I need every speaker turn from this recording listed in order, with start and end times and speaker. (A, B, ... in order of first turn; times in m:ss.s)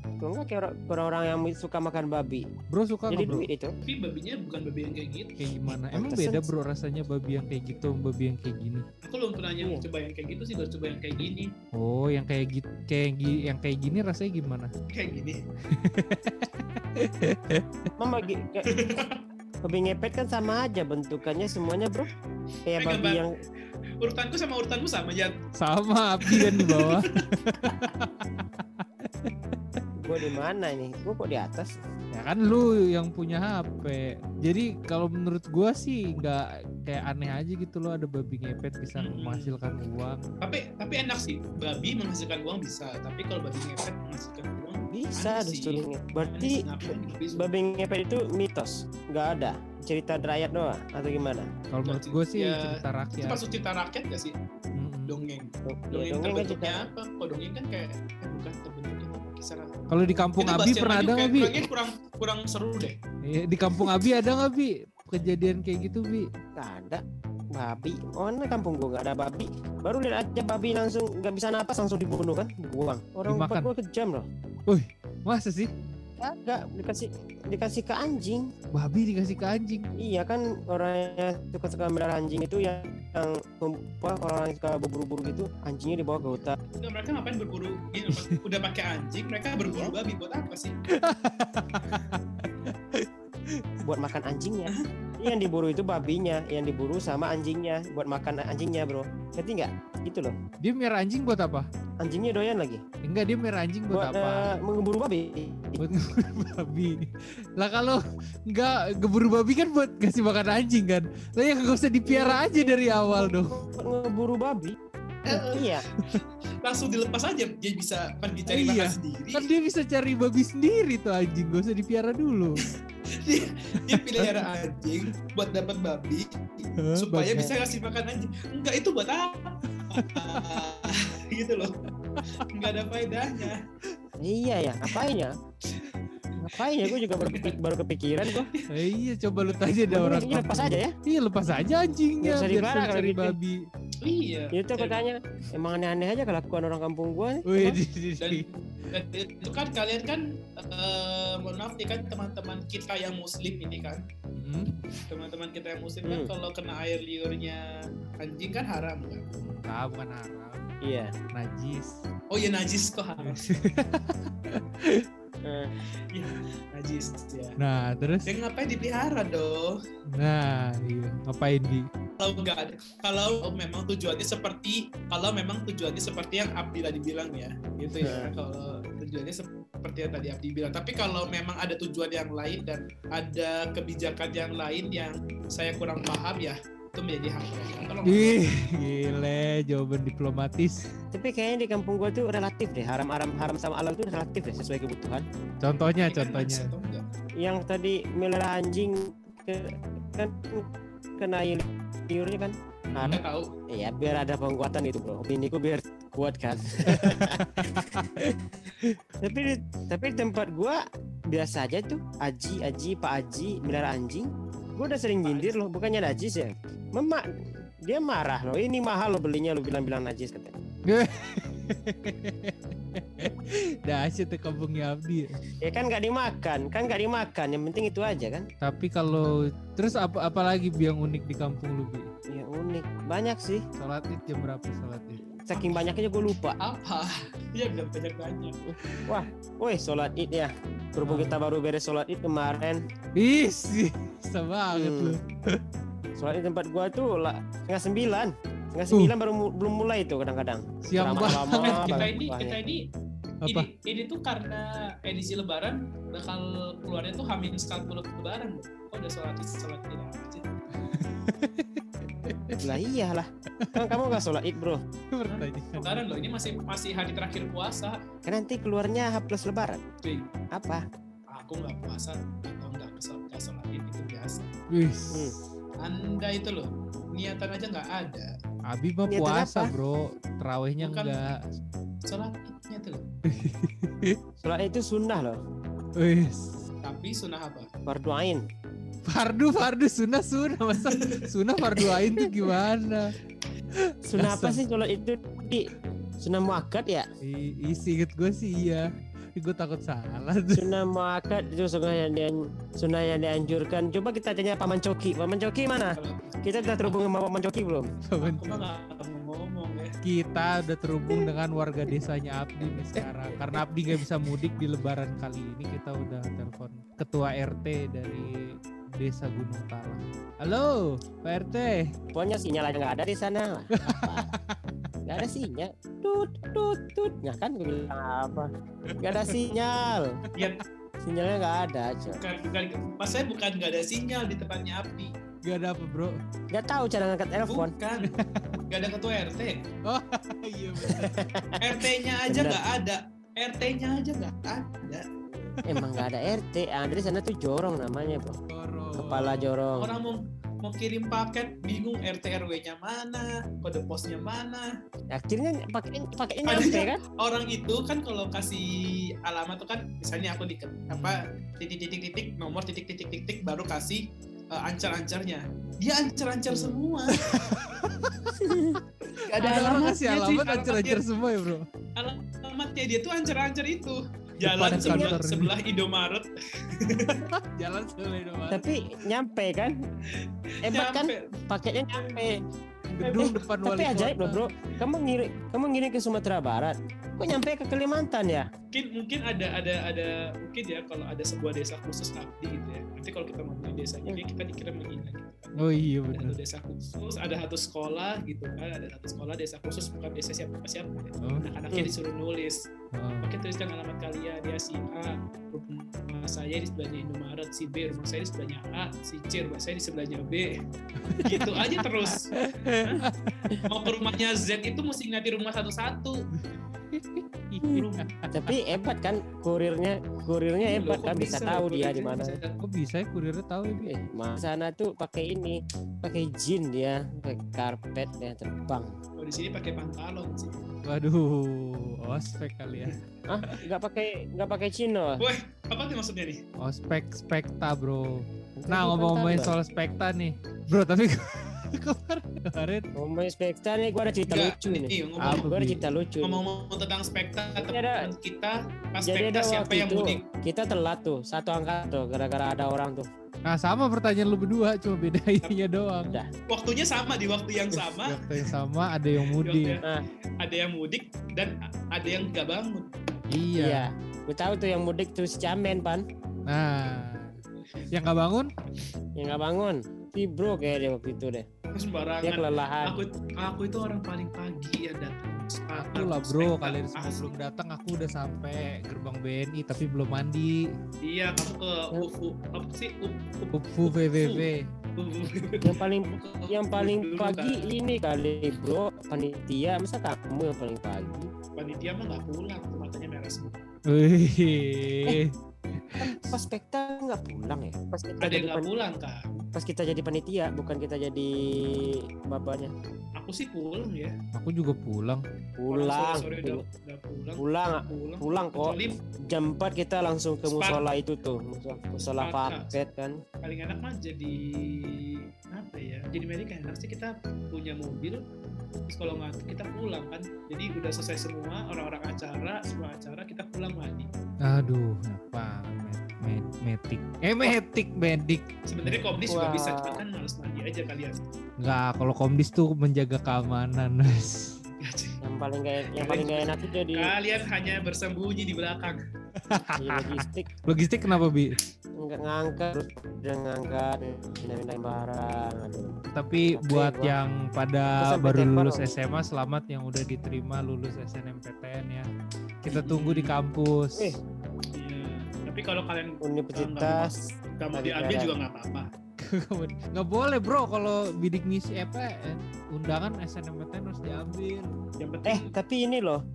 0:00.2-0:02.5 A
0:02.7-0:03.5 B
0:03.1-0:03.7 A
0:03.8-0:05.4 C
0:05.4-0:08.8 B
0:05.8-0:06.5 A
0:09.0-0:11.5 C
0:09.6-0:09.8 A
0:11.7-0:14.7 B
0:14.9-0:15.4 C
0:15.7-0:17.8 B
0:18.0-0:18.7 A
0:18.6-0:19.2 C
0:19.6-0:22.1 A
0:22.6-0:23.3 A
0:22.8-0:23.2 C
0:24.0-0:25.4 C
0:25.5-0:29.3 B
0:26.2-0:27.9 C
0:30.0-0:31.7 A
0:32.1-0:40.3 B
0:39.0-0:39.6 C
0:40.4-0:47.5 C
0:44.9-0:51.5 A
0:51.7-0:53.4 B
0:51.8-0:54.4 C
0:54.7-0:55.1 B
0:55.1-0:59.7 C
0:55.6-0:56.9 A
0:59.9-1:01.6 B
1:00.4-1:03.0 C
1:03.2-1:06.3 B
1:06.6-1:14.3 A
1:13.3-1:13.7 B
1:14.7-1:15.7 B
1:16.2-1:18.5 A
1:18.7-1:19.9 B
1:20.0-1:26.6 A
1:26.7-1:30.7 C
1:28.1-1:28.4 B
1:29.6-1:30.0 A
1:30.9-1:33.6 B
1:33.8-1:40.4 A
1:40.6-1:41.7 B
1:42.0-1:42.8 A
1:43.0-1:44.5 B
1:43.9-1:45.8 A
1:45.8-1:53.6 B
1:52.0-1:55.8 A
1:55.2-1:59.5 C
1:58.5-2:02.6 B
2:03.1-2:11.8 C
2:03.8-2:04.4 B
2:06.8-2:07.4 B
2:09.9-2:10.6 B
2:12.1-2:12.6 B
2:12.4-2:13.6 C
2:14.2-2:15.4 A
2:16.4-2:18.5 A
2:16.8-2:17.5 C
2:18.3-2:18.7 C
2:18.7-2:23.6 B
2:19.9-2:20.9 A
2:22.2-2:23.4 A
2:24.0-2:25.0 C
2:24.5-2:27.8 A
2:27.4-2:28.4 B
2:28.2-2:34.0 C
2:34.4-2:34.8 B
2:35.1-2:39.2 C
2:36.0-2:36.3 A
2:39.4-2:40.7 B
2:40.8-2:41.1 A
2:41.3-2:42.0 B
2:42.3-2:43.5 C
2:43.2-2:45.1 B
2:45.4-2:45.7 A
2:46.1-2:47.6 C
2:47.6-2:48.3 B
2:48.2-2:49.8 C
2:50.1-2:51.9 B
2:52.2-3:08.4 C
2:58.0-2:58.3 A
3:08.0-3:10.8 B
3:11.1-3:15.2 A
3:15.6-3:16.7 B
3:16.0-3:17.0 C
3:17.4-3:20.7 A
3:21.2-3:27.8 A
3:22.9-3:23.2 B
3:23.0-3:23.5 C
3:26.8-3:29.0 B
3:29.2-3:40.5 A
3:35.2-3:35.6 C
3:40.9-3:45.4 B
3:45.6-3:48.5 A
3:48.6-3:52.1 B
3:52.3-3:53.6 A
3:53.8-3:55.2 B
3:55.4-3:56.6 A
3:55.5-3:55.9 C
3:56.6-3:58.6 C
3:59.1-4:02.8 A
4:01.0-4:01.4 B
4:03.1-4:05.6 B
4:04.7-4:05.2 A
4:06.2-4:12.6 A
4:10.8-4:12.1 B
4:11.6-4:12.8 C
4:13.4-4:13.7 B
4:13.5-4:20.4 C
4:20.8-4:22.6 B
4:22.6-4:24.8 A
4:23.6-4:24.1 B
4:25.1-4:26.0 B
4:25.3-4:28.0 C
4:28.2-4:29.8 A
4:30.0-4:30.3 C
4:30.5-4:30.8 A
4:31.3-4:34.5 C
4:34.7-4:35.5 B
4:35.8-4:38.3 C
4:38.7-4:41.4 B
4:39.1-4:39.7 A
4:40.8-4:41.2 C
4:42.0-4:43.0 C
4:43.2-4:44.2 B
4:44.4-4:45.4 A
4:46.0-4:46.6 B
4:46.8-4:47.7 C
4:47.8-4:48.4 A
4:49.0-4:53.2 B
4:50.8-4:51.2 C
4:54.0-4:55.7 A
4:54.2-4:54.6 B
4:56.2-4:57.1 A
4:57.2-5:00.7 B
5:00.5-5:07.9 A
5:06.0-5:07.0 C
5:08.0-5:08.7 B
5:08.2-5:09.9 C
5:10.0-5:21.9 B
5:22.1-5:24.3 A
5:23.8-5:24.6 B
5:25.0-5:30.2 A
5:28.9-5:29.3 B
5:30.4-5:30.6 C
5:31.0-5:32.2 A
5:32.2-5:35.1 C
5:35.4-5:36.2 B
5:36.5-5:37.7 A
5:37.4-5:38.2 C
5:38.0-5:38.6 B
5:38.7-5:39.6 C
5:39.8-5:41.2 B
5:40.8-5:42.6 A
5:41.6-5:45.1 C
5:45.6-5:46.0 B
5:45.6-5:48.4 A
5:48.5-5:49.5 B
5:48.9-5:50.1 A
5:49.8-5:54.7 C
5:55.1-5:57.0 A
5:56.4-6:07.4 C
6:00.9-6:01.3 B
6:06.5-6:06.8 A
6:07.1-6:08.4 B
6:08.3-6:08.8 A
6:09.1-6:11.0 C
6:09.3-6:11.6 B
6:12.0-6:17.3 C
6:14.4-6:15.5 B
6:14.7-6:15.1 A
6:17.2-6:18.6 B
6:18.5-6:19.7 A
6:20.1-6:21.4 C
6:20.6-6:22.4 A
6:21.9-6:22.3 C
6:23.0-6:24.5 B
6:23.0-6:23.3 C
6:23.0-6:28.5 A
6:28.7-6:42.7 C
6:35.6-6:36.4 B
6:42.9-6:43.3 B
6:43.2-6:50.6 C
6:51.0-6:53.6 B
6:51.2-6:53.1 C
6:53.6-6:56.2 C
6:56.4-6:58.6 B
6:57.6-6:58.1 C
6:58.3-7:02.4 A
7:00.6-7:02.6 C
7:02.6-7:03.9 B
7:03.8-7:08.9 A
7:09.2-7:10.6 C
7:10.8-7:13.6 B
7:13.3-7:15.3 A
7:15.2-7:16.4 C
7:16.6-7:22.9 B
7:18.6-7:19.6 A
7:23.0-7:26.4 A
7:24.3-7:25.5 C
7:25.2-7:25.8 B
7:26.2-7:30.2 C
7:27.6-7:28.1 A
7:29.0-7:33.1 A
7:33.4-7:36.2 B
7:36.0-7:36.3 A
7:36.5-7:38.2 C
7:38.0-7:39.8 B
7:39.4-7:39.9 C
7:40.4-7:42.9 C
7:43.3-7:43.8 B
7:43.6-7:46.0 A
7:46.5-7:47.4 B
7:47.9-7:48.5 B
7:49.2-7:51.5 A
7:51.7-7:57.3 C
7:52.2-7:53.0 A
7:55.7-8:00.7 B
8:01.0-8:07.7 C
8:03.5-8:04.7 B
8:05.6-8:11.3 A
8:11.6-8:13.6 C
8:13.9-8:16.0 B
8:16.0-8:18.7 A
8:18.2-8:19.4 C
8:19.5-8:22.7 A
8:23.2-8:24.2 C
8:24.3-8:25.2 B
8:25.6-8:26.6 A
8:25.7-8:29.1 C
8:27.4-8:33.2 A
8:30.4-8:30.9 C
8:32.0-8:32.8 C
8:33.4-8:38.2 C
8:38.9-8:44.1 C
8:44.4-8:49.1 B
8:48.7-8:51.2 C
8:49.3-8:50.0 A
8:51.6-8:54.5 B
8:54.6-8:55.2 C
8:55.2-8:57.1 A
8:56.0-8:59.0 C
8:59.4-9:01.6 B
8:59.8-9:00.5 A
9:02.0-9:06.0 A
9:06.1-9:12.1 B
9:06.5-9:07.1 A
9:08.0-9:09.0 A
9:12.6-9:14.2 B
9:12.7-9:13.3 C
9:13.9-9:14.2 A
9:14.7-9:18.9 C
9:16.2-9:17.2 A
9:17.7-9:18.3 A
9:19.2-9:24.8 B
9:25.0-9:25.5 C
9:25.2-9:26.2 A